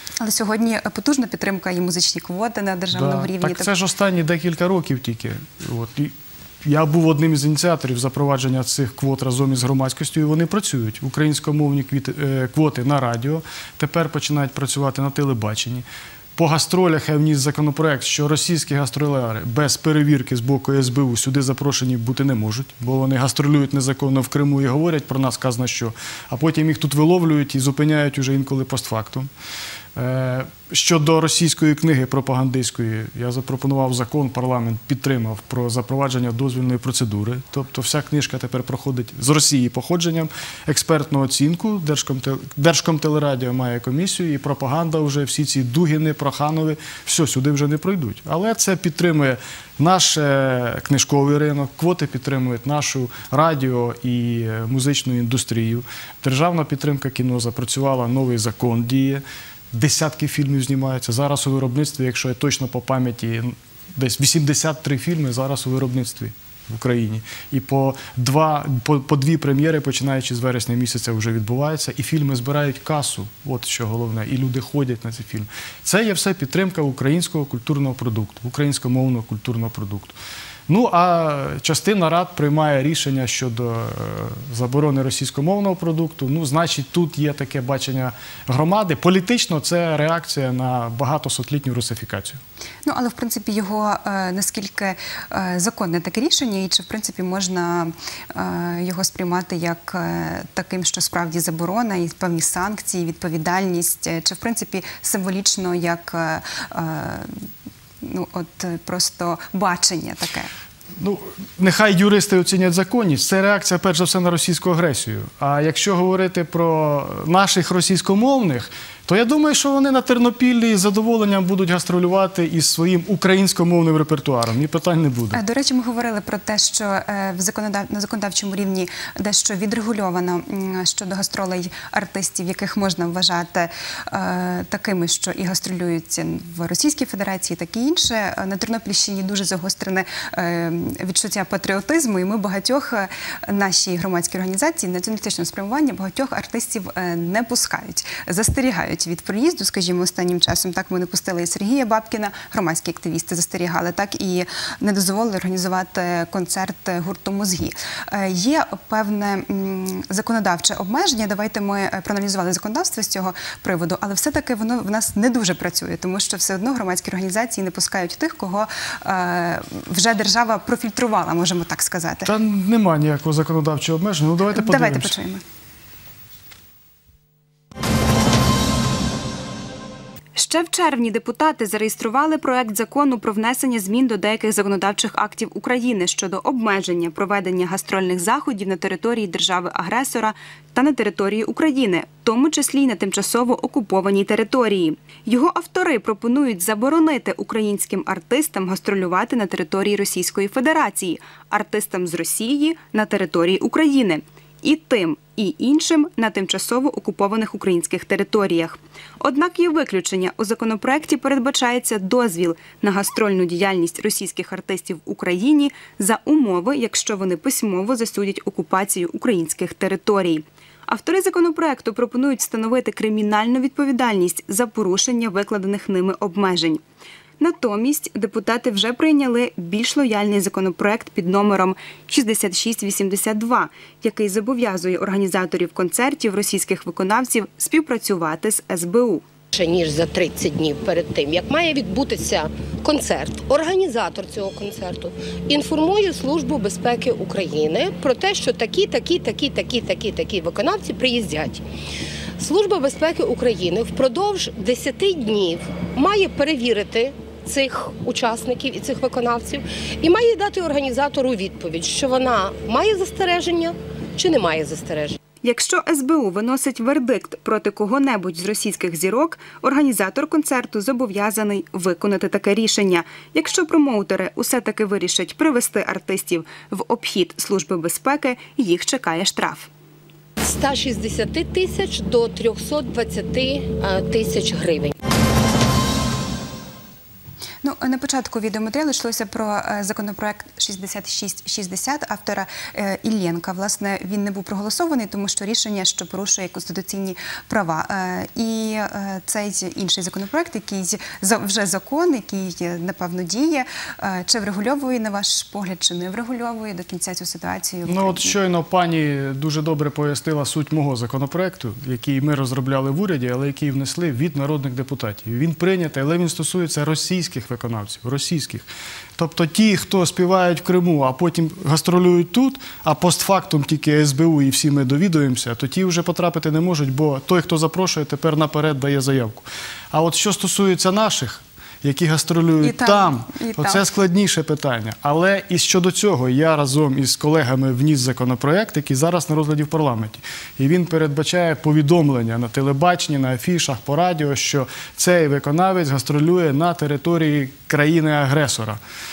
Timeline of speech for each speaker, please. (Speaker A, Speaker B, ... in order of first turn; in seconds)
Speaker A: 0.2-3.7, 92.9-107.5, 108.0-110.5, 125.3-172.3, 174.6-175.4, 287.6-308.3, 332.6-333.9
Speaker B: 2.9-15.8, 16.4-29.3, 30.0-80.2, 80.7-92.4, 111.0-125.4, 172.2-175.1, 307.9-348.8
Speaker C: 180.4-226.8, 227.5-239.2, 265.4-279.7
Speaker D: 239.5-251.6, 252.4-265.2, 280.4-284.9